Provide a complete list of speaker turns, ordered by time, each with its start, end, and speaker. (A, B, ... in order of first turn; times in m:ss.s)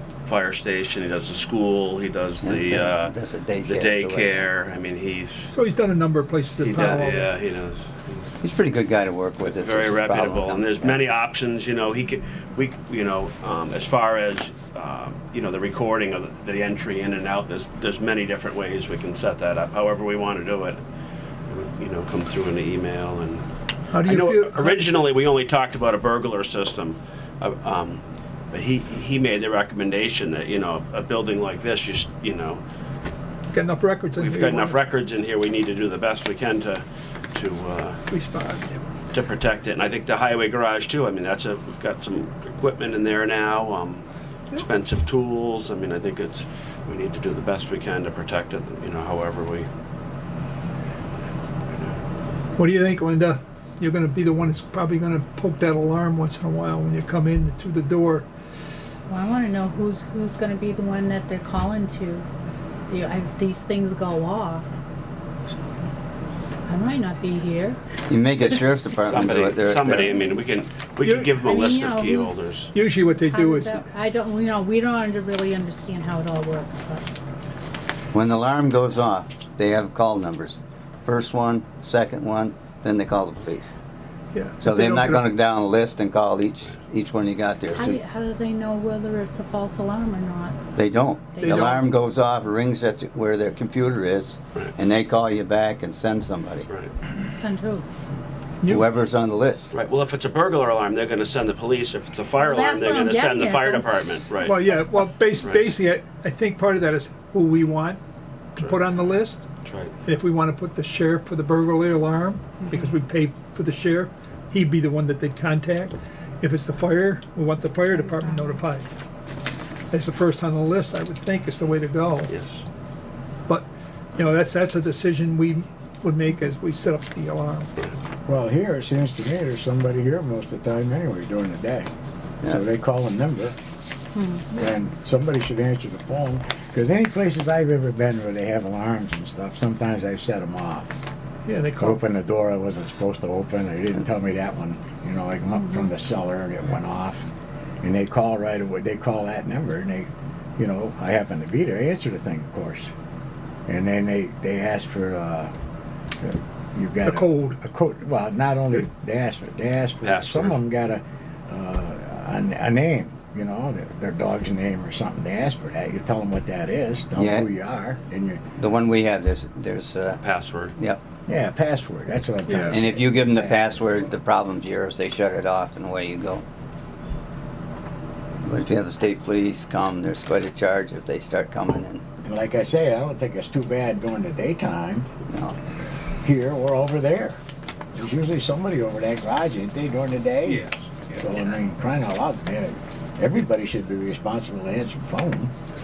0:00.2-0:05.5 A
0:02.4-0:04.5 B
0:05.5-0:07.3 C
0:06.6-0:08.3 A
0:08.4-0:11.0 B
0:09.6-0:20.8 A
0:21.5-0:23.4 A
0:23.9-0:25.0 C
0:24.0-0:32.6 A
0:33.5-0:34.8 C
0:34.2-0:38.0 A
0:38.1-0:38.9 C
0:39.1-0:49.7 A
0:51.7-0:52.0 A
0:52.6-0:58.3 C
0:59.1-1:02.2 D
1:02.9-1:04.6 D
1:06.7-1:07.8 D
1:08.1-1:10.1 B
1:09.0-1:12.7 A
1:11.0-1:11.3 C
1:11.4-1:17.1 D
1:12.6-1:13.9 C
1:18.1-1:23.7 B
1:24.3-1:25.2 C
1:24.6-1:28.0 B
1:27.7-1:30.6 D
1:30.7-1:36.7 B
1:31.3-1:31.9 D
1:31.4-1:31.8 C
1:37.3-1:37.8 D
1:38.6-1:38.9 C
1:38.7-1:39.8 B
1:39.7-1:44.6 A
1:42.4-1:43.9 D
1:44.4-1:48.0 C
1:44.5-1:45.2 D
1:45.4-1:45.7 A
1:48.6-1:49.5 C
1:49.6-1:49.9 A
1:50.0-1:58.9 C
1:57.8-1:58.6 D
1:59.9-2:02.3 C
2:02.3-2:02.6 A
2:03.5-2:07.7 C
2:08.2-2:11.9 E
2:12.4-2:13.6 E
2:14.1-2:14.6 D
2:14.5-2:20.9 E
2:21.5-2:22.0 C
2:21.8-2:27.3 E
2:27.8-2:32.9 E
2:33.7-2:35.5 E
2:36.2-2:48.4 E
2:37.0-2:37.6 C
2:40.0-2:40.6 A
2:47.2-2:47.5 B
2:48.6-2:50.2 B
2:50.2-2:50.8 A
2:51.3-2:54.0 E
2:52.5-2:52.8 C
2:52.7-2:56.4 B
2:58.4-3:02.0 B
3:02.2-3:05.1 E
3:05.3-3:05.6 B
3:06.2-3:07.4 E
3:07.9-3:15.5 E